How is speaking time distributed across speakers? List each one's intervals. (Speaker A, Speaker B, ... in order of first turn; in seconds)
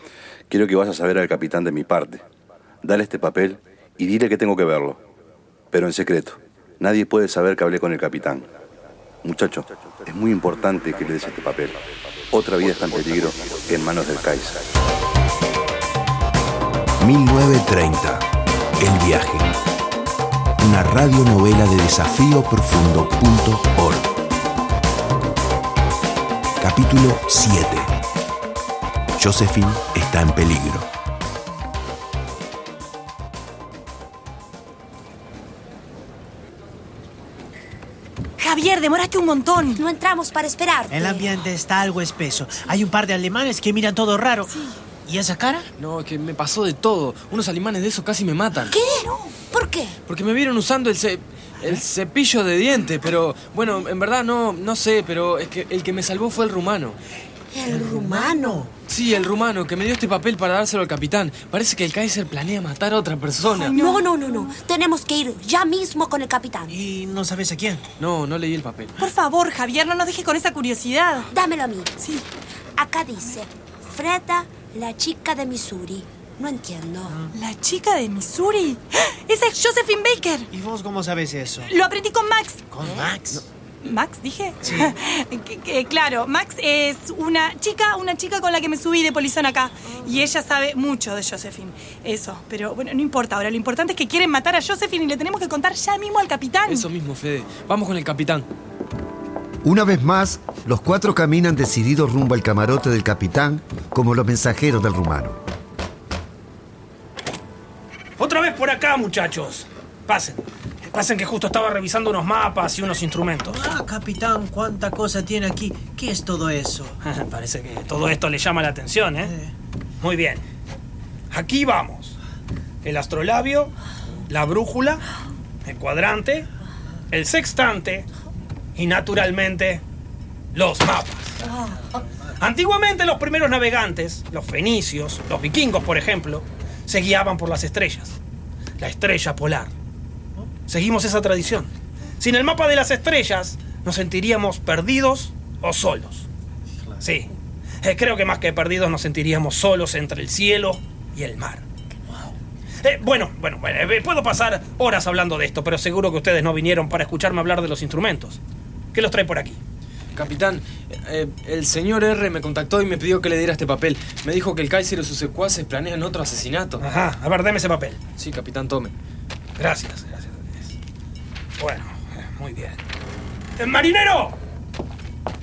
Speaker A: 0.5-2.2, 2.8-5.0, 5.7-8.5, 9.2-14.6
Speaker B: 17.0-18.2, 18.8-19.5, 20.6-24.1, 26.6-27.9, 29.2-30.9
Speaker C: 38.4-39.9, 44.5-44.8, 63.5-64.6, 69.0-71.3, 72.0-72.3, 77.3-80.5, 81.6-82.6, 83.8-96.9
Speaker D: 39.8-41.3, 48.7-49.9, 57.5-58.6, 63.8-66.7, 71.3-71.9, 72.8-77.1
Speaker E: 40.9-45.6, 57.6-58.7, 66.7-67.8, 80.5-81.7, 82.7-83.4, 84.6-84.9, 113.4-117.0, 119.2-119.5
Speaker F: 45.8-48.8, 50.0-57.0, 58.9-63.8, 68.0-68.9, 96.7-98.5, 160.1-166.8, 168.2-168.9
Speaker G: 99.6-105.4
Speaker H: 108.2-113.6, 117.0-119.3, 120.0-120.4, 121.3-122.2, 122.8-123.7, 124.3-125.0, 125.6-126.5, 127.1-128.1, 128.7-129.8, 130.5-131.3, 132.4-138.2, 138.8-139.7, 140.7-146.3, 147.0-151.6, 152.8-158.4, 158.9-159.6, 166.8-168.0, 169.6-170.7, 171.6-172.8, 173.6-174.3